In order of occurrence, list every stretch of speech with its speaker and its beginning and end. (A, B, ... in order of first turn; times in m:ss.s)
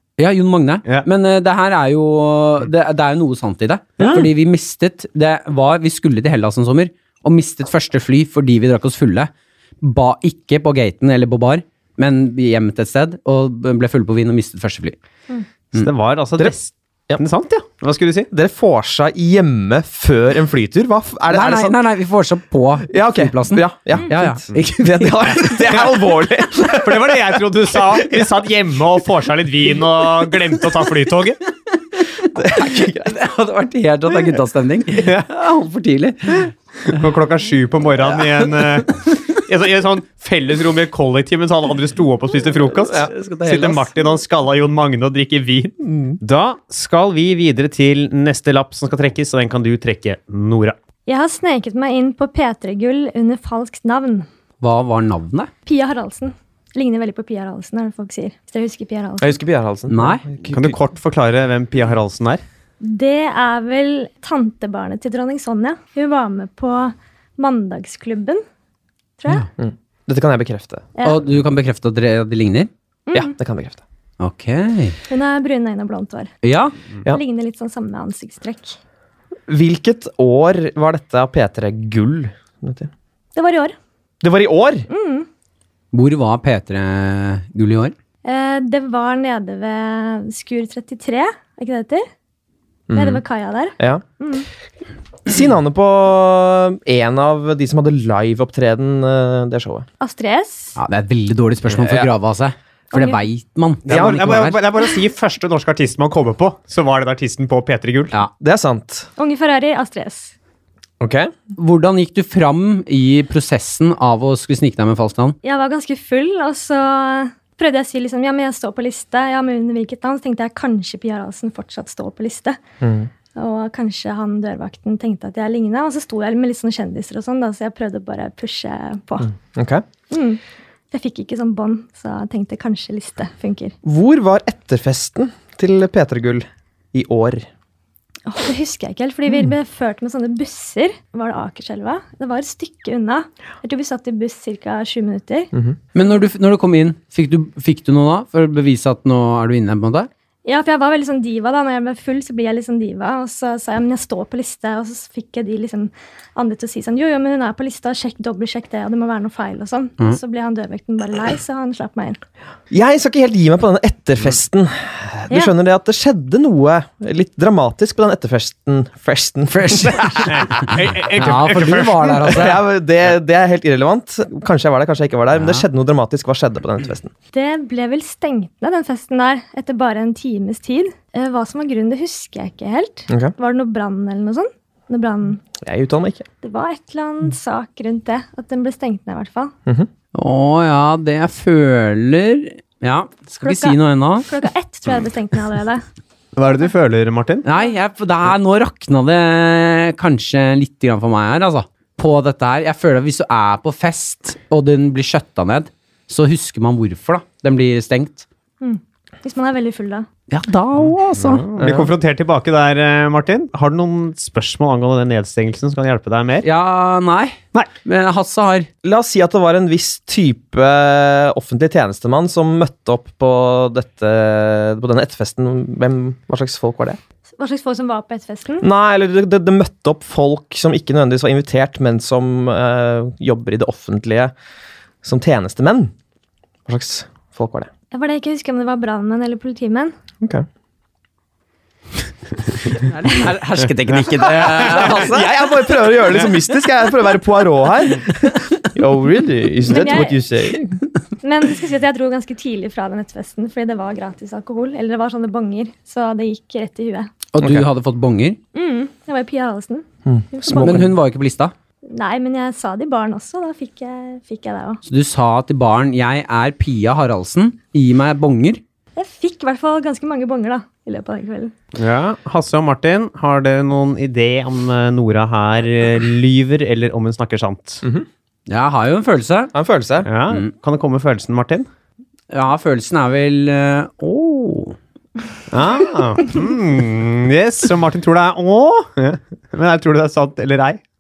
0:00.2-0:15.0 A
0:04.0-0:04.3 B
0:15.8-0:18.3 C
0:18.3-0:21.8 B
0:21.3-0:26.0 A
0:22.9-0:27.1 B
0:26.6-0:31.4 C
0:31.9-0:36.5 A
0:32.3-0:33.1 B
0:36.8-0:50.8 C
0:38.4-0:38.9 A
0:42.9-0:43.9 A
0:45.9-0:46.2 B
0:51.1-0:54.3 D
0:54.6-0:55.5 A
0:55.6-0:59.4 D
0:59.2-1:00.8 B
0:59.9-1:00.2 A
1:00.5-1:02.4 C
1:02.8-1:08.4 D
1:09.2-1:09.4 D
1:09.6-1:10.9 B
1:11.0-1:12.7 A
1:13.1-1:13.3 D
1:13.1-1:13.8 B
1:14.2-1:15.0 A
1:15.1-1:16.3 D
1:16.4-1:16.7 A
1:17.1-1:18.8 D
1:19.5-1:22.9 B
1:23.4-1:23.8 D
1:24.2-1:24.9 B
1:24.9-1:25.3 D
1:25.9-1:27.9 A
1:28.2-1:32.0 D
1:32.9-1:33.2 B
1:32.9-1:34.5 D
1:35.2-1:39.9 B
1:40.0-1:40.8 D
1:40.8-1:44.6 A
1:42.9-1:43.2 D
1:43.9-1:48.1 C
1:43.9-1:44.4 B
1:48.4-1:49.1 B
1:49.2-1:50.3 D
1:51.0-1:51.3 B
1:51.6-1:55.4 A
1:55.4-2:02.6 D
2:02.8-2:03.1 B
2:03.4-2:09.3 D
2:09.4-2:09.8 B
2:10.1-2:10.4 D
2:10.9-2:13.8 D
2:13.8-2:17.5 B
2:18.2-2:25.5 D
2:25.9-2:30.1 A
2:30.4-2:42.2 D
2:42.7-2:50.8 B
2:49.5-2:52.6 A
2:50.3-2:52.4 C
2:52.3-2:57.1 B
2:55.4-2:55.6 A
2:57.3-3:05.4 D
3:05.6-3:06.2 B
3:06.4-3:09.5 D
3:10.1-3:14.3 A
3:13.4-3:15.8 D
3:16.4-3:17.4 C
3:17.4-3:28.2 A
3:28.6-3:30.1 D
3:30.3-3:31.4 A
3:31.2-3:36.5 C
3:31.6-3:31.9 B
3:36.4-3:38.7 A
3:38.8-3:47.0 B
3:47.4-3:48.7 D
3:48.6-3:54.3 B
3:55.0-3:55.9 B
3:56.7-3:57.7 B
3:57.9-3:59.9 D
4:02.6-4:05.4 A
4:04.3-4:10.8 B
4:09.7-4:10.2 D
4:11.2-4:17.1 D
4:17.3-4:18.4 A
4:17.4-4:17.7 B
4:18.5-4:20.8 D
4:20.0-4:20.9 B
4:20.5-4:21.5 A
4:21.9-4:24.8 D
4:24.9-4:28.6 A
4:29.0-4:31.5 D
4:31.8-4:37.8 C
4:38.5-4:39.5 A
4:39.5-4:40.1 B
4:40.0-4:41.7 C
4:42.3-4:44.8 A
4:45.5-4:50.8 C